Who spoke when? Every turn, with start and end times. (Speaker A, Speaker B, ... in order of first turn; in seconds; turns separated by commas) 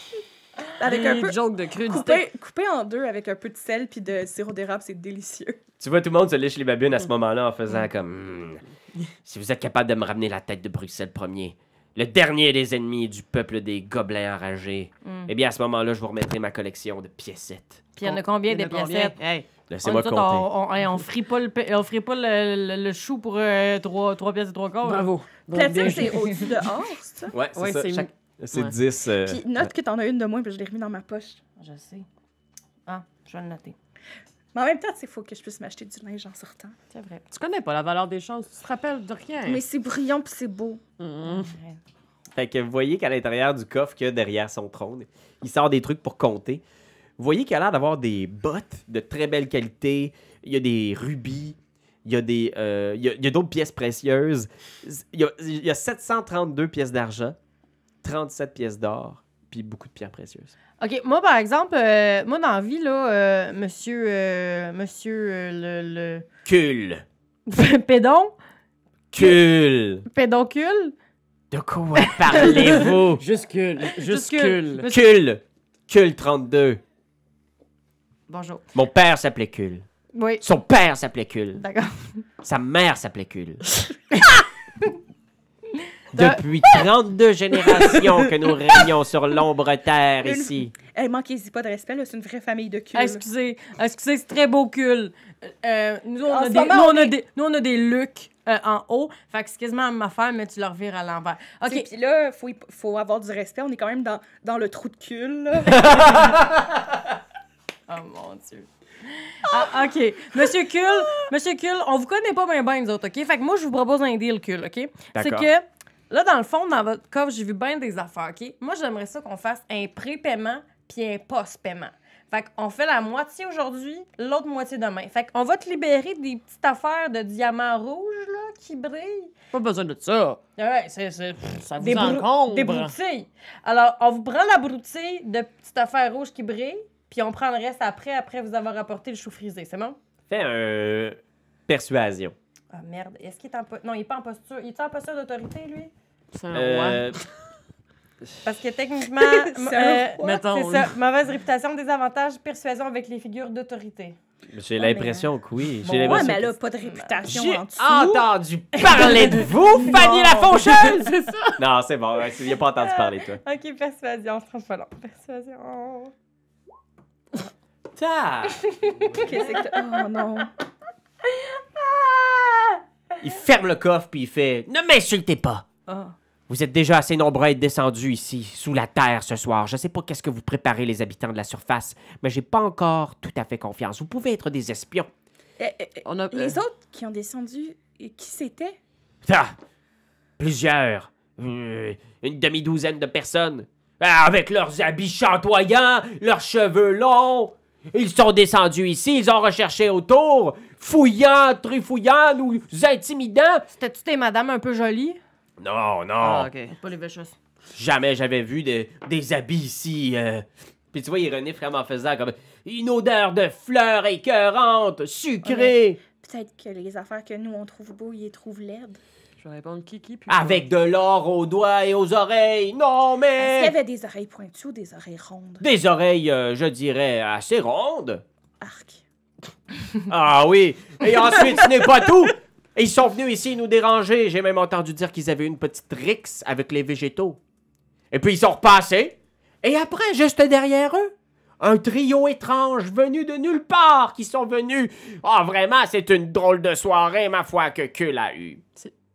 Speaker A: 0.8-5.6, Speaker B: 0.8-2.2, Speaker C: 5.8-8.6, Speaker C: 9.3-17.9, Speaker D: 15.1-15.3, Speaker D: 18.0-19.2, Speaker B: 18.0-19.5, Speaker C: 19.7-20.5, Speaker D: 19.8-25.1, Speaker B: 24.8-26.4, Speaker A: 25.5-27.3, Speaker D: 26.1-26.4, Speaker C: 27.3-29.5, Speaker B: 27.5-28.8, Speaker A: 29.2-31.4, Speaker D: 31.6-32.1, Speaker D: 32.9-33.8, Speaker A: 34.5-36.8, Speaker D: 36.9-37.2, Speaker B: 37.3-39.6, Speaker A: 39.4-40.8, Speaker B: 41.0-41.5, Speaker D: 41.2-41.8, Speaker C: 42.4-46.6, Speaker C: 47.2-57.4, Speaker C: 58.0-60.5, Speaker D: 60.8-66.2, Speaker C: 66.5-67.0, Speaker D: 67.5-68.3, Speaker C: 69.1-70.1, Speaker D: 70.1-71.0, Speaker C: 71.5-73.2, Speaker D: 72.0-72.9, Speaker B: 72.5-74.9, Speaker D: 73.9-75.1, Speaker C: 74.9-76.8, Speaker D: 78.3-78.6, Speaker C: 78.7-79.8, Speaker D: 80.1-80.4, Speaker C: 80.4-81.6, Speaker D: 81.6-82.2, Speaker C: 82.4-83.6, Speaker C: 86.1-90.7, Speaker D: 86.1-86.8, Speaker A: 90.2-93.2, Speaker D: 92.9-101.9, Speaker A: 96.2-97.2, Speaker A: 101.7-106.3, Speaker C: 105.8-106.2, Speaker D: 107.9-129.3, Speaker C: 115.1-115.5, Speaker B: 129.5-130.4, Speaker D: 130.6-140.0, Speaker B: 131.6-132.9, Speaker C: 140.3-141.2, Speaker C: 141.7-142.3, Speaker D: 142.7-145.9, Speaker B: 146.3-147.2, Speaker C: 146.5-147.2, Speaker D: 148.4-154.2, Speaker A: 149.1-150.4, Speaker B: 150.2-150.9, Speaker C: 154.5-156.5, Speaker D: 154.8-155.3, Speaker D: 155.8-157.2, Speaker A: 156.0-158.3, Speaker C: 157.3-163.4, Speaker D: 158.8-161.0, Speaker B: 159.9-161.6, Speaker D: 162.7-166.1, Speaker C: 168.0-168.7, Speaker D: 169.1-170.1, Speaker A: 169.2-170.5, Speaker D: 171.3-172.8, Speaker C: 173.2-175.6, Speaker D: 175.9-176.1, Speaker C: 176.5-185.1, Speaker A: 185.6-188.8, Speaker B: 186.1-186.6, Speaker C: 189.2-189.5, Speaker C: 190.4-203.7, Speaker D: 203.7-205.2, Speaker C: 205.6-206.5, Speaker B: 206.2-206.8, Speaker D: 206.8-207.4, Speaker C: 207.7-216.0, Speaker A: 215.4-219.0, Speaker B: 219.4-220.7, Speaker C: 220.3-223.8, Speaker A: 223.4-225.7, Speaker C: 225.6-228.2, Speaker A: 228.6-229.0, Speaker C: 230.1-237.4, Speaker C: 238.1-248.6